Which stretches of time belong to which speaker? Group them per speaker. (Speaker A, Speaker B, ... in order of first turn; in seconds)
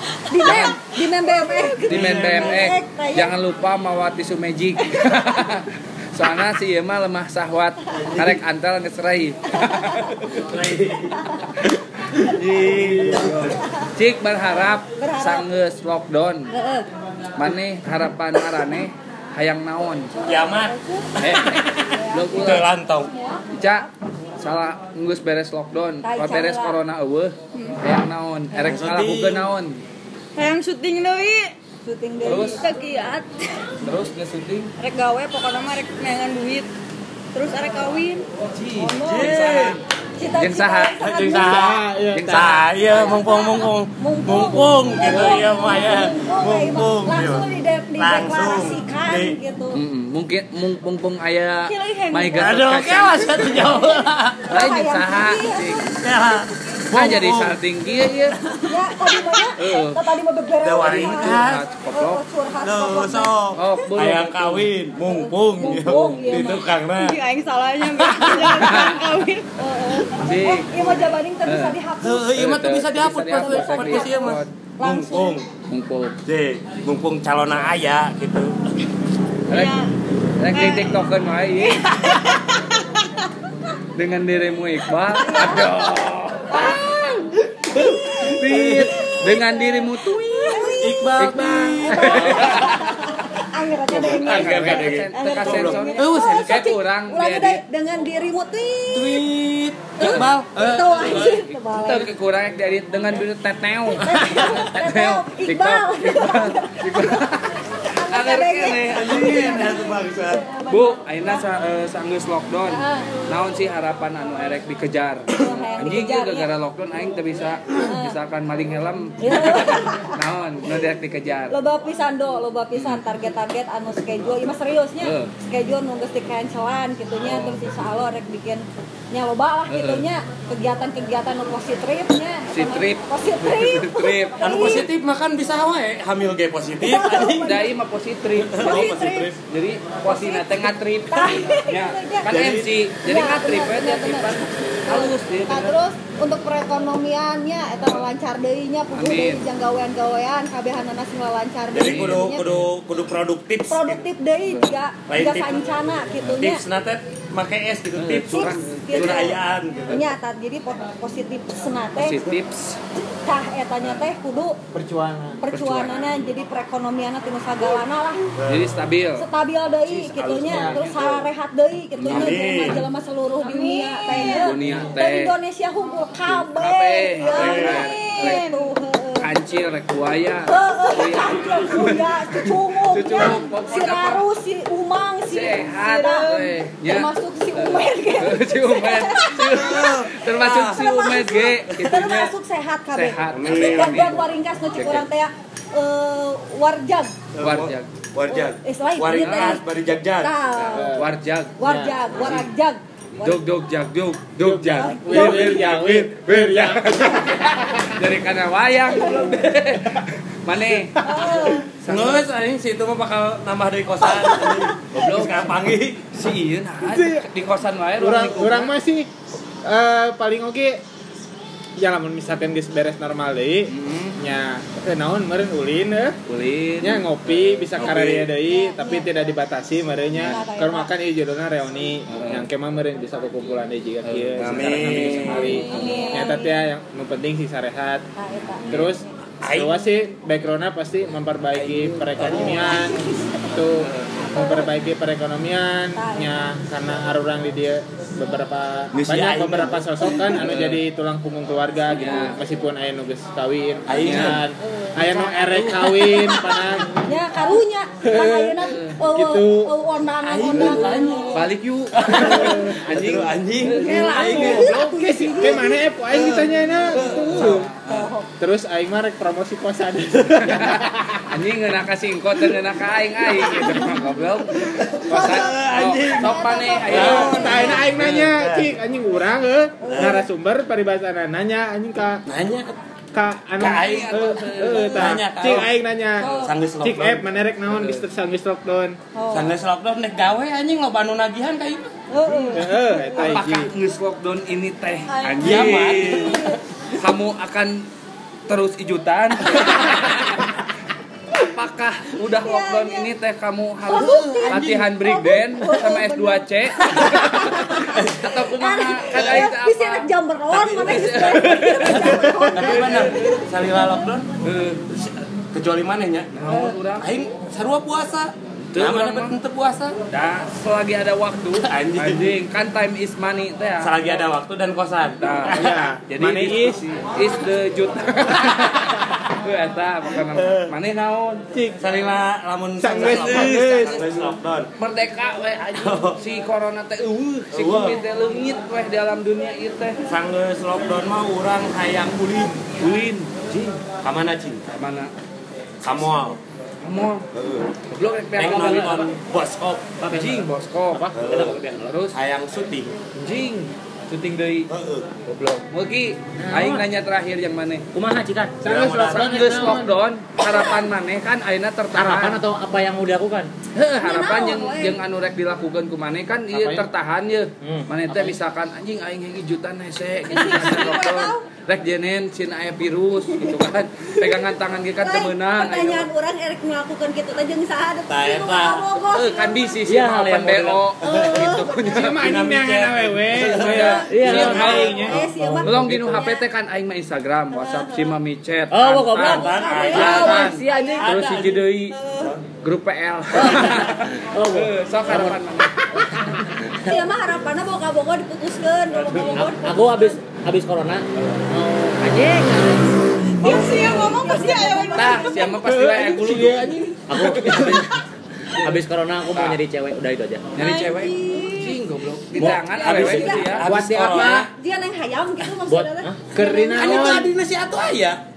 Speaker A: 0.3-3.3, 15.0-15.5, 16.5-16.9, 20.1-21.1, 21.9-23.8, 26.0-26.8, 31.8-32.8, 38.8-39.4, 40.2-41.7, 42.9-49.8, 51.7-52.5, 54.5-56.0, 58.6-63.3, 65.0-66.7, 69.6-72.3, 73.3-75.4, 85.1-85.7, 86.5-87.2, 87.8-88.2, 89.2-91.2, 91.9-99.3, 100.0-102.1, 104.0-107.3, 107.8-111.4, 112.7-113.1, 115.4-116.5, 117.8-118.2, 119.2-120.2, 121.5-134.9, 136.8-137.7, 138.6-139.3, 140.0-142.3, 143.0-152.5, 153.7-156.6, 158.3-162.3, 163.2-164.6, 165.4-168.3, 169.2-179.3, 180.5-190.1, 190.7-197.2, 198.3-199.6, 200.2-200.9, 201.6-203.4, 204.8-205.7, 209.0-209.3, 211.0-211.7, 228.3-229.1, 230.1-230.9, 235.4-236.6, 238.2-239.0, 242.8-243.6, 244.3-244.7, 245.9-246.3, 254.6-255.0, 257.0-261.5, 263.6-265.9, 267.9-268.3, 273.9-274.2, 275.1-277.9, 279.8-280.2, 284.7-285.0, 286.2-286.5, 289.1-289.5, 292.1-293.1, 295.1-296.6, 302.4-303.1, 303.9-314.1, 364.0-365.0, 370.3-371.4, 374.2-379.8, 381.0-381.8, 384.9-386.4, 387.5-388.1, 389.2-391.1, 391.9-392.3, 396.8-400.2, 403.4-405.9, 410.6-411.8, 412.4-417.3
Speaker B: 0.4-0.8, 1.8-10.4, 13.1-16.5, 17.4-20.1, 21.2-22.7, 23.5-29.8, 32.2-32.6, 33.8-34.7, 38.5-39.8, 40.4-41.0, 42.1-42.6, 49.7-53.5, 54.5-55.9, 56.9-58.4, 59.6-60.1, 60.8-62.2, 63.5-64.7, 65.6-66.3, 68.4-69.1, 70.2-71.8, 72.3-74.5, 75.7-76.1, 79.5-79.8, 80.4-82.0, 84.0-87.1, 87.7-90.6, 91.2-93.0, 93.9-97.6, 100.0-109.6, 110.7-121.5, 122.7-123.0, 125.0-125.3, 127.2-127.6, 129.7-130.1, 132.5-134.6, 137.4-145.8, 148.9-149.4, 151.7-152.6, 157.9-160.1, 162.0-162.8, 163.8-164.1, 165.5-166.1, 168.4-169.3, 169.8-171.2, 172.0-172.4, 174.1-175.3, 176.2-178.5, 179.2-184.2, 185.3-192.3, 192.9-194.2, 194.7-195.1, 197.4-197.9, 199.1-199.6, 200.5-202.5, 203.2-212.2, 214.9-215.5, 216.1-218.7, 223.7-224.2, 226.3-227.1, 232.1-232.5, 234.0-236.1, 243.7-244.3, 250.4-250.8, 251.9-252.3, 253.9-254.4, 258.6-259.0, 261.3-264.8, 266.9-268.1, 270.4-278.3, 283.6-285.0, 287.7-288.0, 293.1-296.4, 296.9-297.9, 298.5-300.5, 301.3-313.4, 314.4-314.8, 316.3-317.1, 318.6-319.4, 320.1-324.0, 325.2-331.4, 332.9-334.0, 334.8-340.0, 342.7-343.8, 344.7-345.1, 346.8-347.3, 347.9-349.1, 350.1-351.1, 351.8-352.1, 353.1-354.7, 355.6-357.9, 359.0-362.4, 363.7-376.1, 379.1-382.3, 383.3-392.0, 392.6-396.3, 399.1-399.6, 404.9-407.8, 409.3-409.6, 410.5-413.7
Speaker C: 1.3-1.8, 27.5-27.8, 30.4-31.5, 32.2-33.7, 34.8-36.7, 37.3-38.3, 51.9-52.3, 66.9-70.2, 79.5-79.9, 80.5-81.0, 81.7-82.8, 86.5-87.3, 173.4-174.6, 177.2-178.7, 403.4-405.6
Speaker D: 1.9-2.7, 10.3-11.2, 12.2-13.6, 20.2-20.8, 21.6-23.1, 28.5-29.5, 39.0-39.8, 41.0-49.4, 52.4-54.5, 56.0-57.6, 60.6-61.7, 62.6-67.2, 68.0-68.6, 72.0-75.5, 76.2-78.6, 87.4-89.0, 90.8-92.8, 93.9-96.7, 98.9-101.4, 104.0-104.5, 108.8-110.4, 134.4-137.6, 138.4-139.4, 142.3-142.7, 151.7-154.0, 155.1-155.7, 156.2-160.0, 168.4-168.8, 172.1-172.9, 177.3-177.8, 189.6-190.8, 193.3-194.2, 197.3-200.3, 204.4-206.1, 211.8-216.1, 227.7-228.3, 234.4-235.6, 239.4-239.9, 241.6-242.8, 248.9-250.7, 253.9-254.5, 255.9-256.5, 260.2-264.8, 266.1-267.4, 273.4-273.8, 274.8-278.7, 279.9-280.2, 282.2-282.8, 283.6-284.0, 284.8-285.7, 286.2-287.2, 289.3-291.9, 295.4-296.6, 303.9-304.9, 309.1-309.5, 310.5-311.1, 312.1-314.3, 314.9-319.9, 321.6-322.3, 323.8-325.9, 330.3-330.7, 331.8-334.7, 335.8-336.2, 337.5-338.0, 340.1-342.7, 344.0-344.6, 345.8-346.4, 347.3-347.7, 348.4-350.0, 351.1-351.6, 352.1-353.0, 354.7-355.1, 358.6-359.4, 378.1-378.9, 381.1-385.1, 389.2-392.4, 412.3-414.5
Speaker E: 41.4-42.6, 164.7-165.4, 170.4-170.8, 200.7-201.1, 201.6-202.0, 204.4-207.5, 216.8-217.2, 218.0-219.1, 219.6-220.8, 221.8-226.2, 226.8-238.0, 238.7-256.9, 258.0-259.8, 262.3-262.7, 264.1-267.7, 268.4-270.9, 276.9-282.2, 283.1-289.0, 292.5-293.7, 325.5-326.8, 331.5-331.8, 332.8-334.3, 358.6-359.8, 381.9-385.9, 405.6-407.1, 413.6-414.5, 416.3-417.3
Speaker F: 255.0-256.2, 350.0-351.9, 355.3-355.6, 356.4-356.8, 357.9-359.9, 361.9-363.5, 366.5-366.9, 367.6-368.4, 379.8-380.8, 384.1-386.2, 388.7-390.8, 393.3-395.4, 399.4-402.9, 407.1-407.9, 408.6-410.5, 415.6-418.1